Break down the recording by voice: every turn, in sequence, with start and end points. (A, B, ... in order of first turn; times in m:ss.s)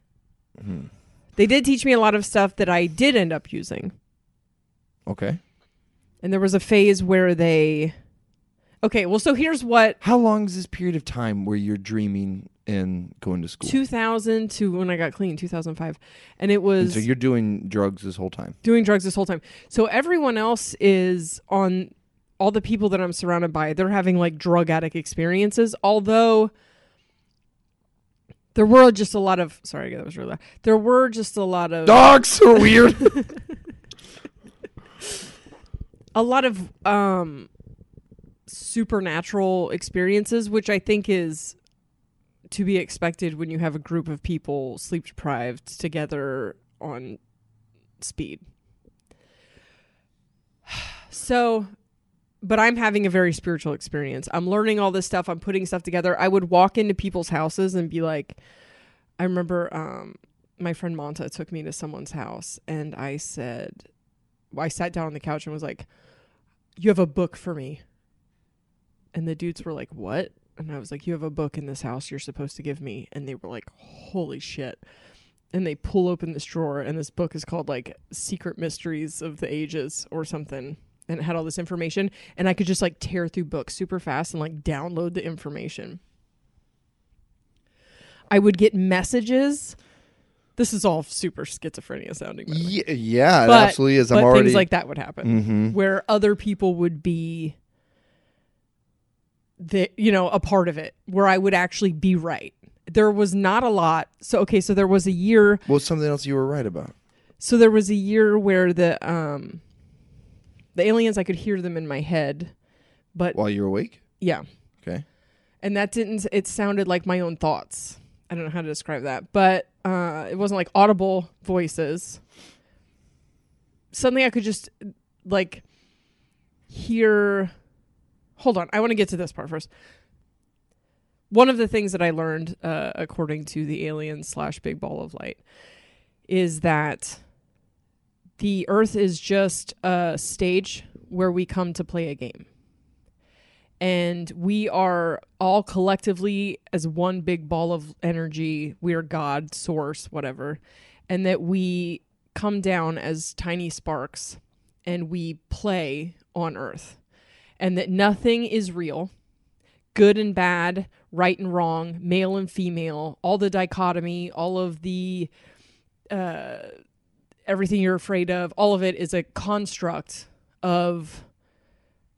0:00.6-0:00.9 A
0:01.4-0:03.9 B
0:05.1-0:05.4 A
0:06.2-0:08.0 B
0:08.8-0:10.0 B
0:10.0-0:13.8 A
0:13.6-0:17.1 B
0:16.8-0:18.6 A
0:18.6-0:26.5 B
0:28.5-0:33.3 B
0:31.9-0:33.2 A
0:36.1-0:37.5 B
0:38.5-0:41.6 B
0:42.5-0:47.2 B
0:48.0-0:48.5 B
0:50.7-0:51.7 B
0:52.4-0:58.4 B
0:59.2-1:03.8 B
1:04.5-1:05.9 B
1:06.8-1:07.8 B
1:09.1-1:14.8 B
1:15.5-1:26.0 B
1:28.3-1:29.8 B
1:30.6-1:32.8 B
1:32.5-1:34.7 A
1:33.4-1:37.6 B
1:35.2-1:35.8 A
1:39.6-1:45.6 B
1:45.7-1:46.9 A
1:47.4-1:49.6 B
1:50.8-1:52.5 B
1:53.1-1:53.4 B
1:53.4-1:54.0 A
1:54.2-1:54.4 B
1:55.6-2:02.2 B
2:03.9-2:05.6 B
2:06.7-2:07.5 B
2:08.4-2:09.7 B
2:11.3-2:15.4 B
2:16.3-2:17.2 B
2:18.4-2:22.5 B
2:23.8-2:37.0 B
2:37.6-2:39.1 B
2:39.9-2:45.3 B
2:46.1-2:46.7 B
2:47.5-2:51.3 B